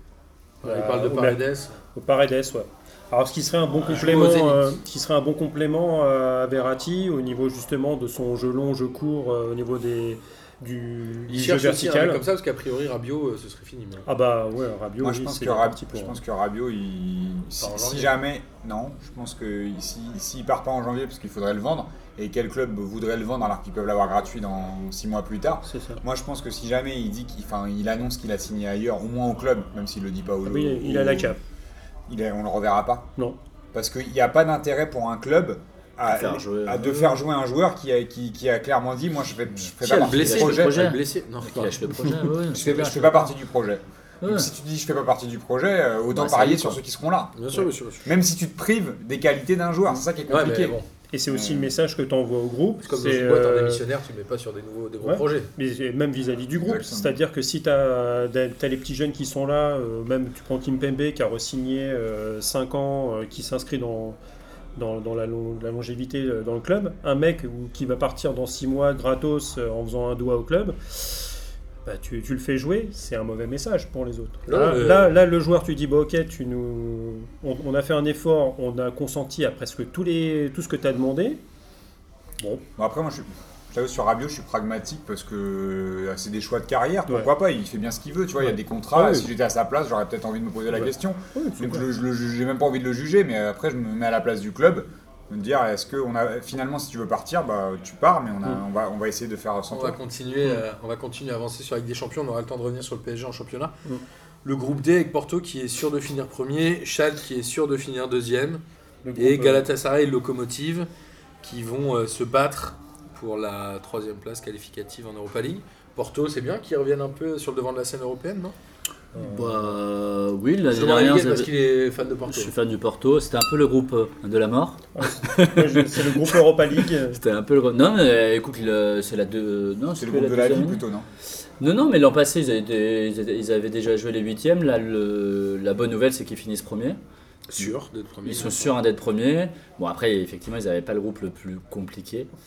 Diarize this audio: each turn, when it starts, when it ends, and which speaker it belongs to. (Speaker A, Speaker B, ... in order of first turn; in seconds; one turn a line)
Speaker A: 0.6-1.8
Speaker B: 0.6-1.4
Speaker B: 1.9-12.2
Speaker A: 3.8-4.7
Speaker A: 11.3-14.1
Speaker B: 14.1-16.2
Speaker C: 15.0-31.4
Speaker A: 17.6-18.1
Speaker B: 25.6-26.0
Speaker B: 30.4-31.4
Speaker C: 32.1-33.1
Speaker C: 33.7-41.0
Speaker D: 36.1-37.2
Speaker D: 39.6-43.3
Speaker A: 39.8-42.0
Speaker C: 42.5-51.7
Speaker D: 44.2-44.5
Speaker D: 46.1-46.8
Speaker A: 47.4-48.1
Speaker A: 50.3-50.9
Speaker B: 51.1-53.8
Speaker A: 52.8-55.5
Speaker B: 55.0-64.2
Speaker C: 56.5-57.2
Speaker B: 64.8-71.3
Speaker B: 71.8-81.4
Speaker A: 74.5-75.1
Speaker B: 82.4-82.6
Speaker C: 82.8-100.0
Speaker B: 88.9-89.3
Speaker B: 90.8-91.8
Speaker A: 99.7-103.7
Speaker A: 104.4-108.6
Speaker B: 109.0-109.7
Speaker A: 109.2-110.9
Speaker A: 111.4-118.5
Speaker B: 119.1-119.7
Speaker D: 119.2-121.5
Speaker A: 120.7-122.5
Speaker D: 122.3-130.8
Speaker B: 124.9-127.2
Speaker C: 130.0-131.1
Speaker D: 131.6-137.0
Speaker A: 137.5-138.8
Speaker D: 138.2-142.3